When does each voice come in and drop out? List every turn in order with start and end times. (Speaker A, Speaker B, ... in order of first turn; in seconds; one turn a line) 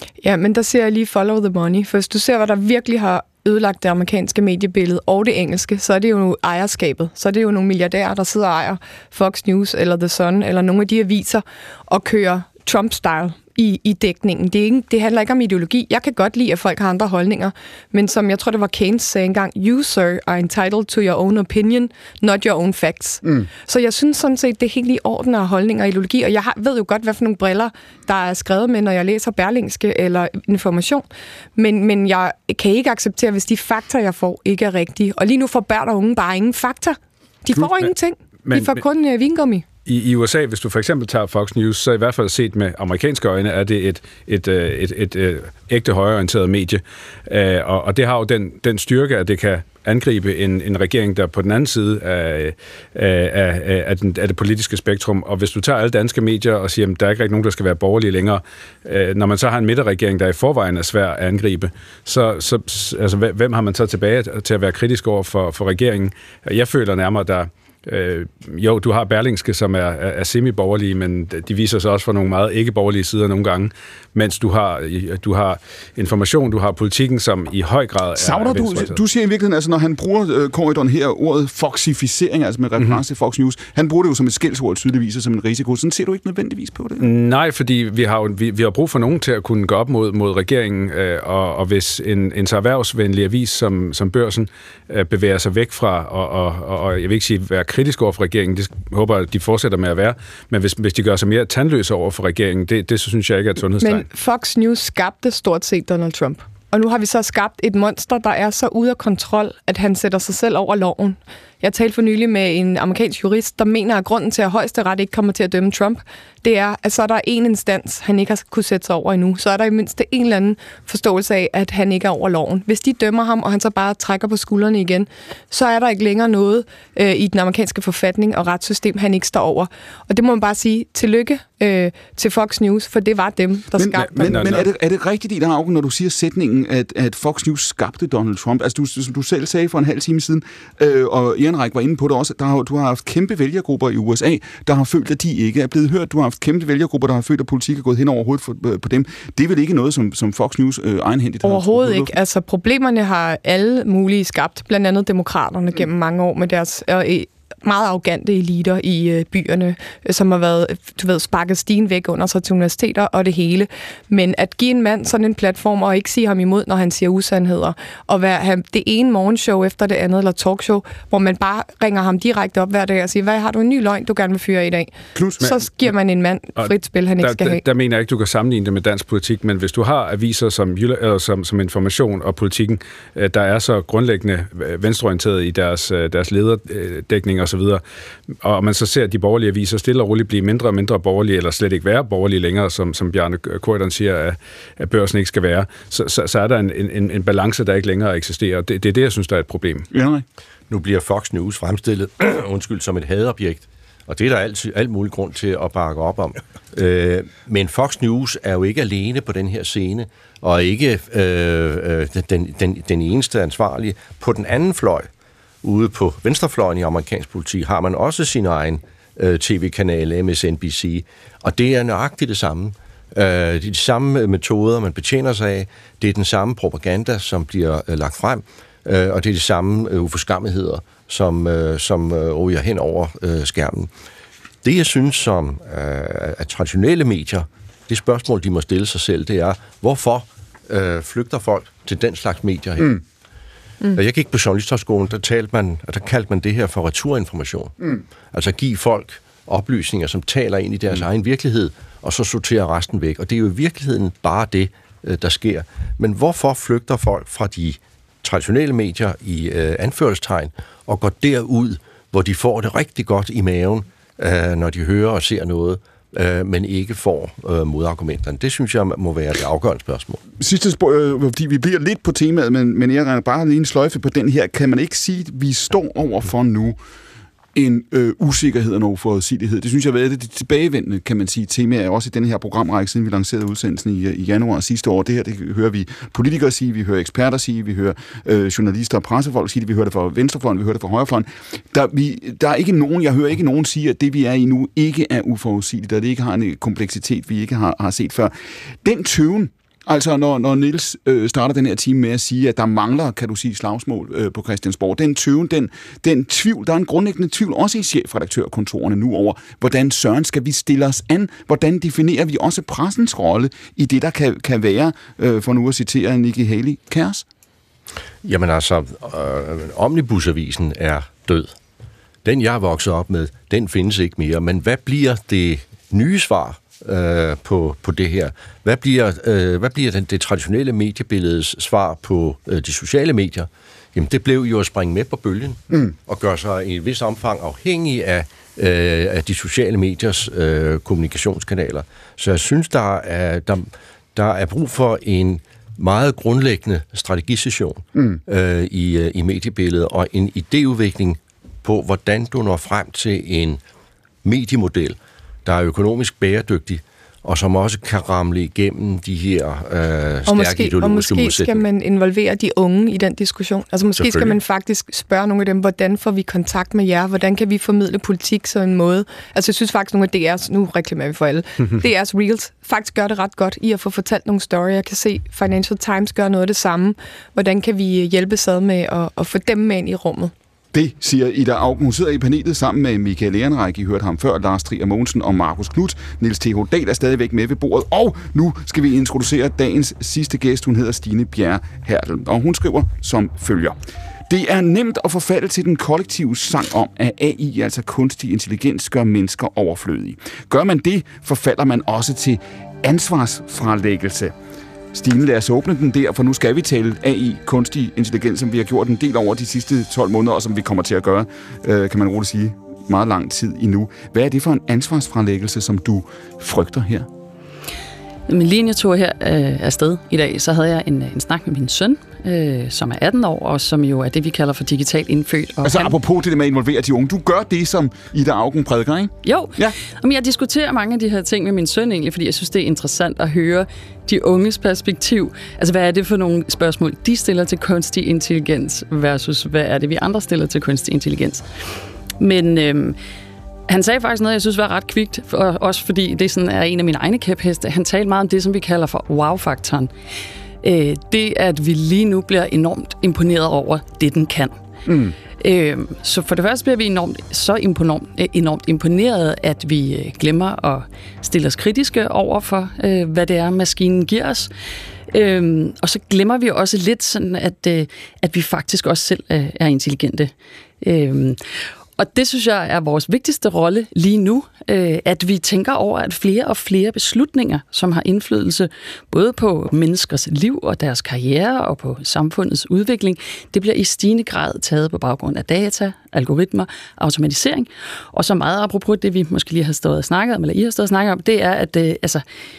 Speaker A: 0.2-31.0
Speaker A: 31.6-39.6
Speaker B: 38.5-38.8
Speaker B: 39.9-79.0
Speaker C: 78.2-87.1
Speaker B: 87.0-104.1
Speaker A: 103.8-134.7
Speaker C: 133.8-152.1
Speaker B: 134.2-134.6
Speaker A: 151.4-177.6
Speaker C: 175.2-175.4
Speaker B: 177.2-187.8
Speaker B: 188.4-199.9
Speaker C: 199.9-200.2
Speaker D: 200.7-215.1
Speaker D: 215.6-233.9
Speaker D: 234.6-243.0
Speaker D: 243.9-270.2
Speaker C: 270.4-276.8
Speaker C: 277.6-298.3
Speaker C: 298.8-317.2
Speaker D: 318.2-321.5
Speaker D: 322.2-353.6
Speaker D: 354.2-361.6
Speaker A: 360.3-380.3
Speaker D: 364.0-364.4
Speaker C: 380.7-393.8
Speaker C: 394.3-404.3
Speaker C: 404.9-417.1
Speaker E: 418.3-426.0
Speaker C: 425.6-429.8
Speaker E: 429.2-441.5
Speaker E: 442.2-443.0
Speaker E: 443.7-449.9
Speaker E: 450.6-454.6
Speaker C: 454.9-455.1
Speaker E: 455.4-464.5
Speaker E: 465.1-471.4
Speaker E: 472.0-492.2